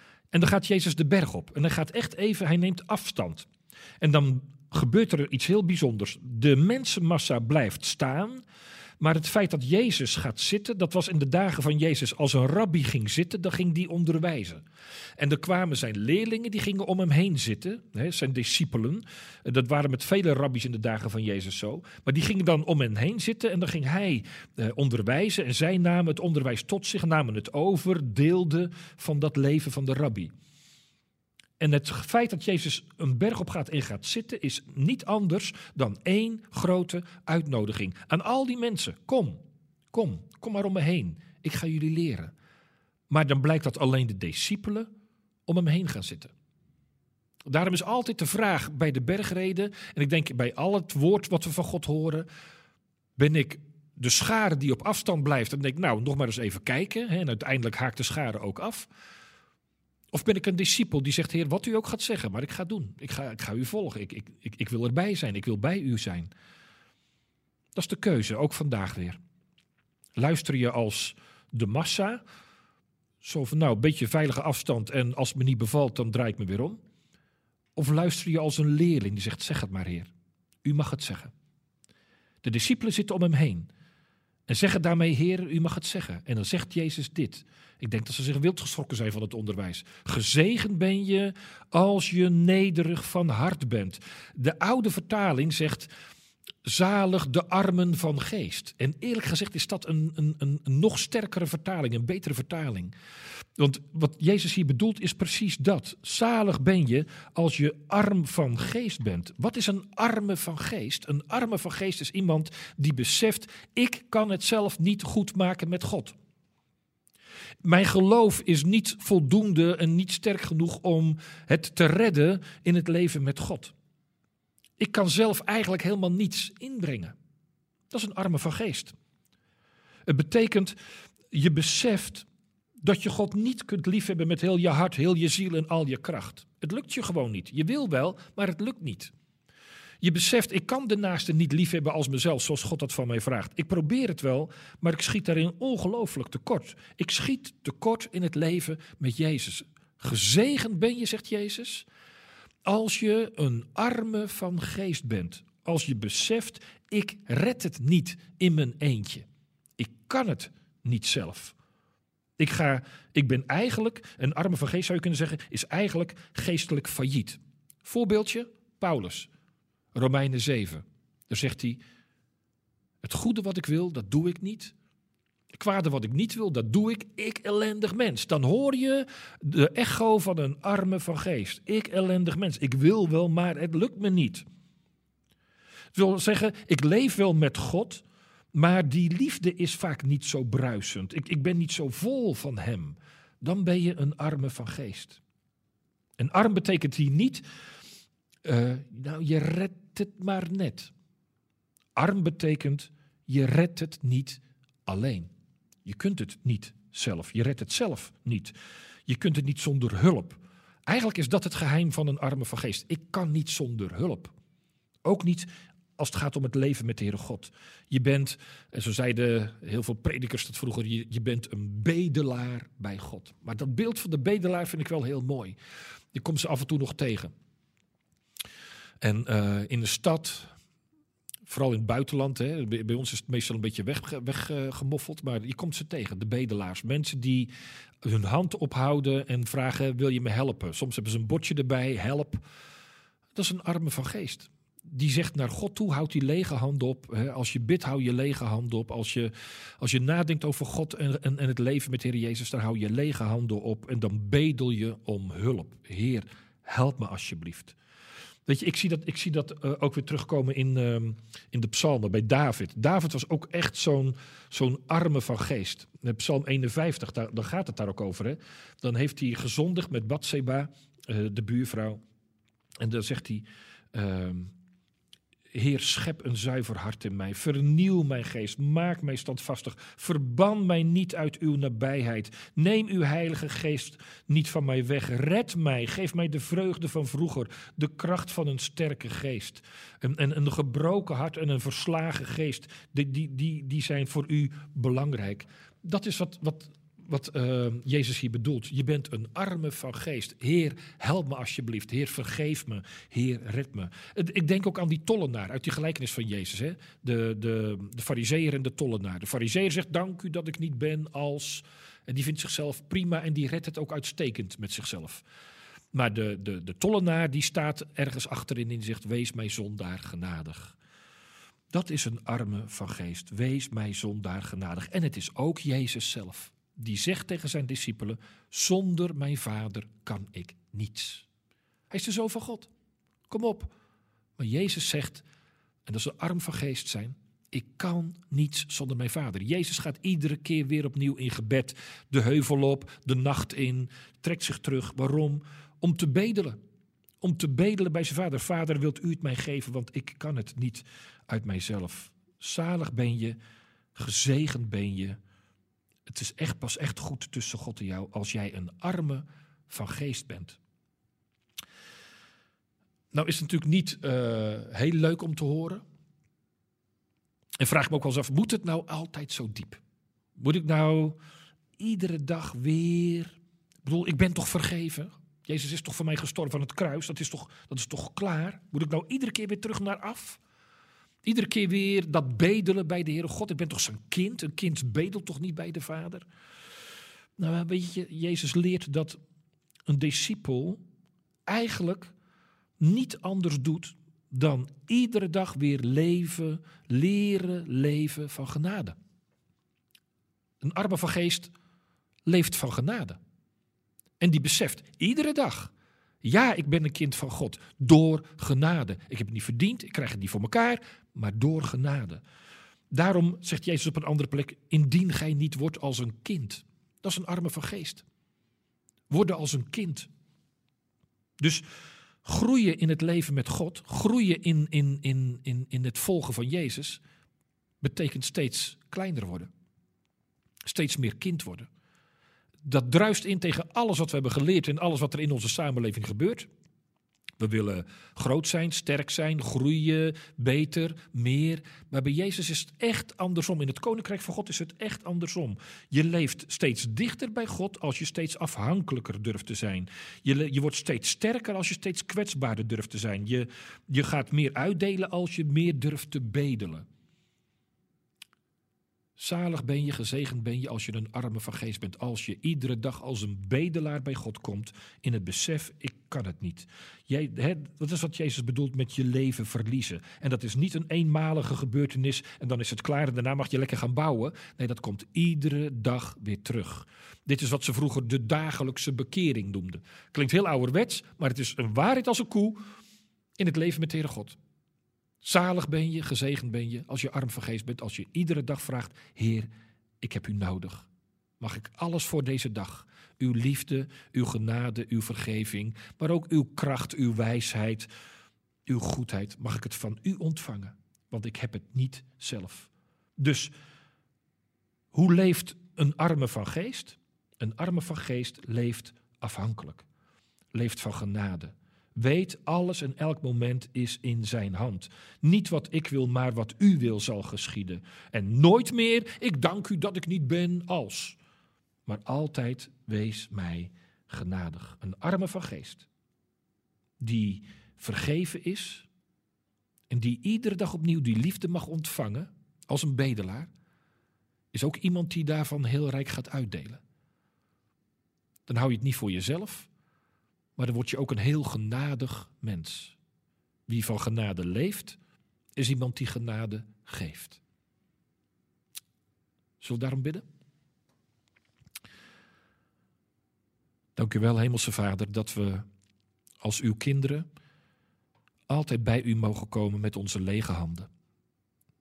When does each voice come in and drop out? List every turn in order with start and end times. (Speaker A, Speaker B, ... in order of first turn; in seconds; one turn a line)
Speaker A: 0.3-3.5
Speaker A: 4.0-8.4
Speaker A: 9.0-14.6
Speaker A: 15.2-30.3
Speaker A: 31.6-42.3
Speaker A: 43.1-44.9
Speaker A: 45.5-46.3
Speaker A: 47.5-52.3
Speaker A: 53.2-58.9
Speaker A: 60.1-66.3
Speaker A: 67.7-69.2
Speaker A: 70.2-72.2
Speaker A: 73.2-76.8
Speaker A: 77.8-80.1
Speaker A: 80.6-81.3
Speaker A: 82.4-83.7
Speaker A: 84.5-95.9
Speaker A: 96.6-102.9
Speaker A: 103.6-116.2
Speaker A: 117.6-123.7
Speaker A: 124.8-127.1
Speaker A: 127.9-128.9
Speaker A: 130.1-130.8
Speaker A: 131.3-132.3
Speaker A: 132.8-139.1
Speaker A: 140.0-151.9
Speaker A: 152.7-159.3
Speaker A: 159.8-161.5
Speaker A: 162.4-169.3
Speaker A: 169.9-171.8
Speaker A: 173.0-174.7
Speaker A: 175.5-184.4
Speaker A: 185.9-195.2
Speaker A: 196.2-197.4
Speaker A: 198.4-200.9
Speaker A: 201.9-205.3
Speaker A: 205.8-208.6
Speaker A: 209.1-214.3
Speaker A: 215.0-225.6
Speaker A: 226.1-227.3
Speaker A: 229.0-230.5
Speaker A: 231.5-237.5
Speaker A: 238.0-242.4
Speaker A: 243.3-257.8
Speaker A: 258.4-272.0
Speaker A: 272.8-274.5
Speaker A: 275.5-315.2
Speaker A: 315.9-320.8
Speaker A: 321.7-331.3
Speaker A: 331.9-332.7
Speaker A: 333.3-333.7
Speaker A: 334.4-335.2
Speaker A: 335.9-346.6
Speaker A: 347.2-353.4
Speaker A: 353.9-355.2
Speaker A: 356.1-360.6
Speaker A: 363.1-365.8
Speaker A: 367.6-369.8
Speaker A: 370.4-371.2
Speaker A: 371.8-380.4
Speaker A: 381.2-386.2
Speaker A: 387.4-389.2
Speaker A: 389.9-390.8
Speaker A: 391.4-392.1
Speaker A: 392.8-399.0
Speaker A: 400.6-401.5
Speaker A: 402.2-403.2
Speaker A: 404.2-412.2
Speaker A: 412.9-418.0
Speaker A: 419.1-420.1
Speaker A: 421.4-421.6
Speaker A: 422.2-427.0
Speaker A: 427.8-429.5
Speaker A: 430.6-431.7
Speaker A: 432.6-436.5
Speaker A: 437.4-456.9
Speaker A: 459.2-482.6
Speaker A: 483.4-484.4
Speaker A: 485.2-489.5
Speaker A: 490.0-490.9
Speaker A: 491.4-497.9
Speaker A: 498.6-503.5
Speaker A: 504.9-509.8
Speaker A: 510.5-521.2
Speaker A: 521.9-525.9
Speaker A: 527.0-528.9
Speaker A: 529.9-533.5
Speaker A: 534.5-536.8
Speaker A: 538.5-539.7
Speaker A: 540.6-543.0
Speaker A: 543.7-545.0
Speaker A: 545.5-547.4
Speaker A: 549.6-550.2
Speaker A: 554.0-555.6
Speaker A: 556.4-557.2
Speaker A: 558.5-560.9